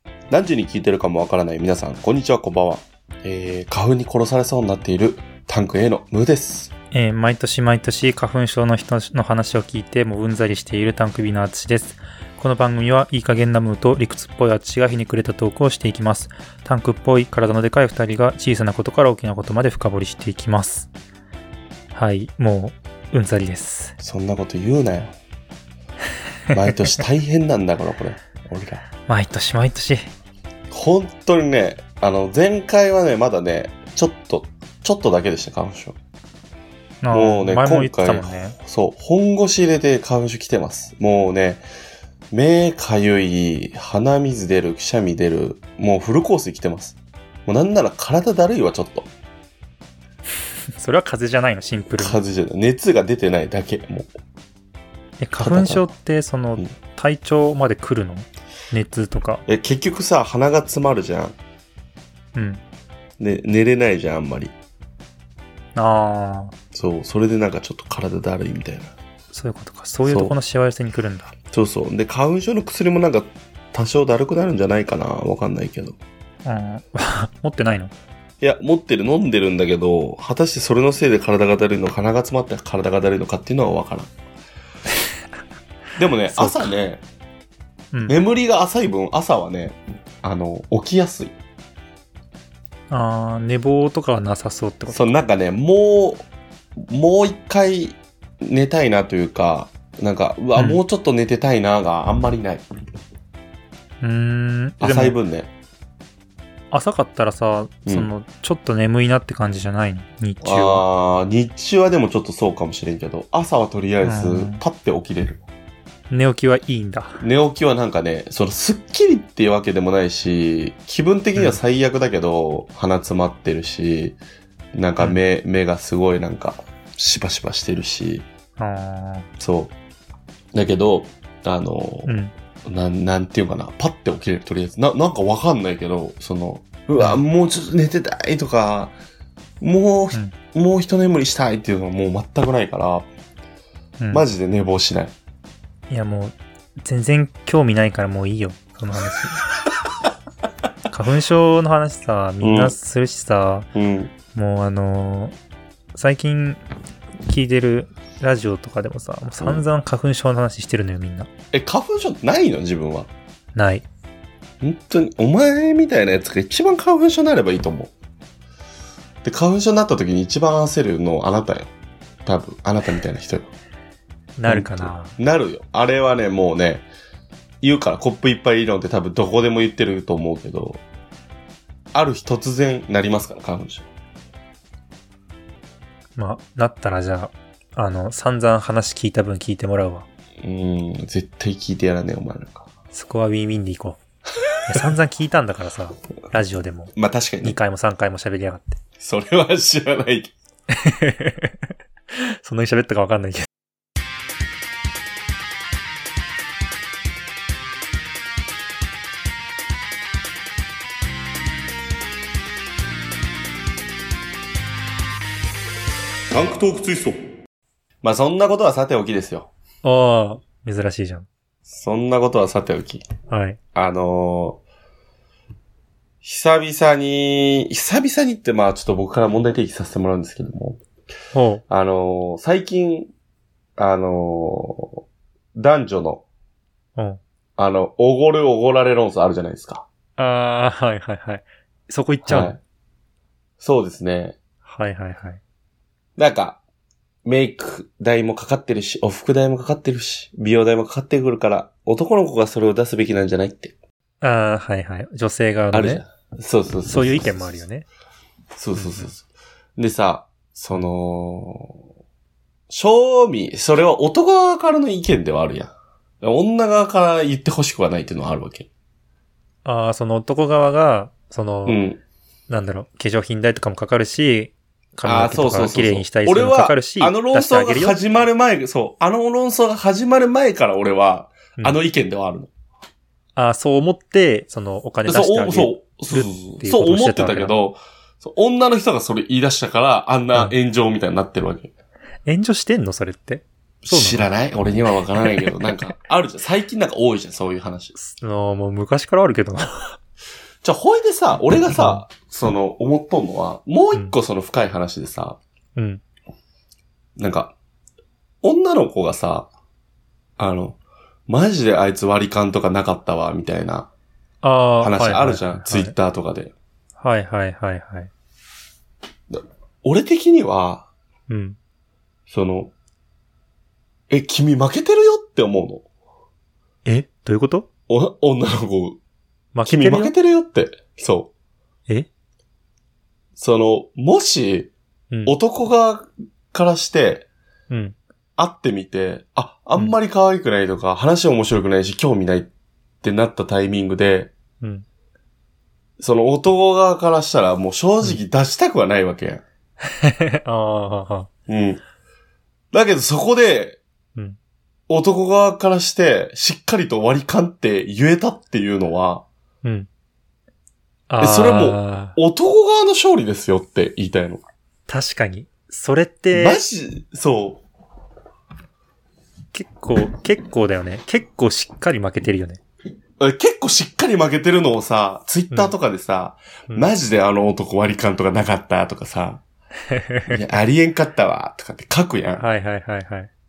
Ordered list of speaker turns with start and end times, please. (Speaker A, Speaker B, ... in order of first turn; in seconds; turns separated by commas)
Speaker A: 0.3-6.7, Speaker B: 6.9-20.9, Speaker B: 21.9-23.9, Speaker A: 24.0-25.1, Speaker A: 26.5-28.8, Speaker B: 29.0-30.0, Speaker A: 30.7-36.0, Speaker B: 37.0-38.5, Speaker A: 37.1-41.6, Speaker A: 42.3-49.1, Speaker B: 50.7-52.2, Speaker A: 52.0-54.1, Speaker B: 55.2-59.4, Speaker A: 55.4-55.9, Speaker A: 59.5-61.4, Speaker B: 62.3-62.6, Speaker A: 63.2-64.5, Speaker B: 65.8-66.5, Speaker A: 66.7-68.9, Speaker B: 69.3-71.3, Speaker A: 70.0-70.3, Speaker A: 71.5-76.0, Speaker B: 76.4-77.9, Speaker A: 78.4-84.1, Speaker A: 86.0-87.0, Speaker B: 86.3-86.7, Speaker A: 88.0-91.4, Speaker B: 92.9-95.1, Speaker A: 94.9-96.2, Speaker A: 96.9-102.6, Speaker B: 100.5-100.8, Speaker B: 104.0-105.2, Speaker A: 104.8-105.5, Speaker B: 106.7-110.8, Speaker A: 110.4-115.4, Speaker B: 114.0-114.6, Speaker B: 116.1-117.2, Speaker A: 117.2-124.2, Speaker A: 124.7-128.3, Speaker B: 128.6-129.3, Speaker A: 129.4-129.7, Speaker A: 130.5-132.1, Speaker B: 132.1-132.3, Speaker A: 132.7-138.9, Speaker A: 139.6-143.1, Speaker B: 144.0-144.2, Speaker A: 144.1-145.1, Speaker B: 145.9-149.4, Speaker B: 150.9-153.7, Speaker A: 152.4-152.8, Speaker A: 153.7-154.1, Speaker B: 154.3-155.3, Speaker B: 155.9-156.6, Speaker B: 157.2-161.3, Speaker A: 161.5-163.1, Speaker B: 163.6-163.8, Speaker A: 164.6-167.9, Speaker A: 169.2-171.7, Speaker A: 172.3-173.5, Speaker B: 174.4-175.1, Speaker A: 174.5-176.9, Speaker A: 177.6-180.8, Speaker A: 181.9-183.9, Speaker B: 186.2-190.1, Speaker A: 190.4-192.7, Speaker B: 192.9-194.0, Speaker B: 194.7-198.8, Speaker A: 197.0-197.6, Speaker A: 199.0-200.3, Speaker B: 200.7-203.5, Speaker A: 216.3-217.2, Speaker A: 218.0-219.5, Speaker B: 219.8-221.3, Speaker A: 221.7-223.1, Speaker B: 223.3-223.6, Speaker A: 223.8-224.6, Speaker A: 226.2-230.8, Speaker B: 231.3-231.6, Speaker A: 231.7-233.1, Speaker A: 233.8-235.0, Speaker A: 235.6-236.2, Speaker A: 237.6-239.9, Speaker B: 240.2-242.5, Speaker A: 242.2-242.6, Speaker A: 243.6-244.4, Speaker B: 244.7-245.4, Speaker A: 246.2-246.6, Speaker A: 247.2-253.8, Speaker B: 254.2-256.0, Speaker A: 255.7-257.6, Speaker B: 256.9-257.9, Speaker A: 258.6-259.2, Speaker B: 258.8-259.1, Speaker A: 259.8-261.8, Speaker A: 262.7-268.7, Speaker B: 269.6-271.8, Speaker A: 271.7-272.0, Speaker B: 272.5-278.0, Speaker A: 275.1-282.5, Speaker B: 283.4-287.5, Speaker A: 285.1-291.7, Speaker B: 292.2-294.3, Speaker A: 293.8-297.9, Speaker B: 295.2-295.8, Speaker B: 298.0-300.0, Speaker A: 300.6-305.4, Speaker B: 301.7-302.0, Speaker B: 305.8-306.0, Speaker A: 307.2-307.5, Speaker A: 308.4-309.5, Speaker A: 310.4-310.8, Speaker A: 311.3-313.9, Speaker B: 314.4-315.9, Speaker A: 314.8-316.5, Speaker B: 317.0-318.1, Speaker A: 319.3-320.9, Speaker B: 321.3-321.6, Speaker A: 322.3-322.7, Speaker A: 324.1-325.9, Speaker B: 326.9-327.7, Speaker A: 327.9-329.0, Speaker B: 329.5-330.1, Speaker A: 329.7-331.3, Speaker A: 333.4-334.7, Speaker A: 335.2-337.2, Speaker B: 337.7-338.0, Speaker A: 338.4-342.5, Speaker A: 343.0-344.3, Speaker A: 346.0-349.4, Speaker B: 349.8-351.3, Speaker A: 351.5-351.8, Speaker A: 352.7-353.8, Speaker A: 354.9-359.2, Speaker B: 359.6-359.9, Speaker B: 361.1-362.2, Speaker A: 361.2-364.4, Speaker B: 364.9-366.6, Speaker A: 366.3-367.6, Speaker B: 369.5-372.6, Speaker A: 373.2-379.4, Speaker B: 379.9-380.4, Speaker A: 380.3-382.4, Speaker B: 382.4-383.3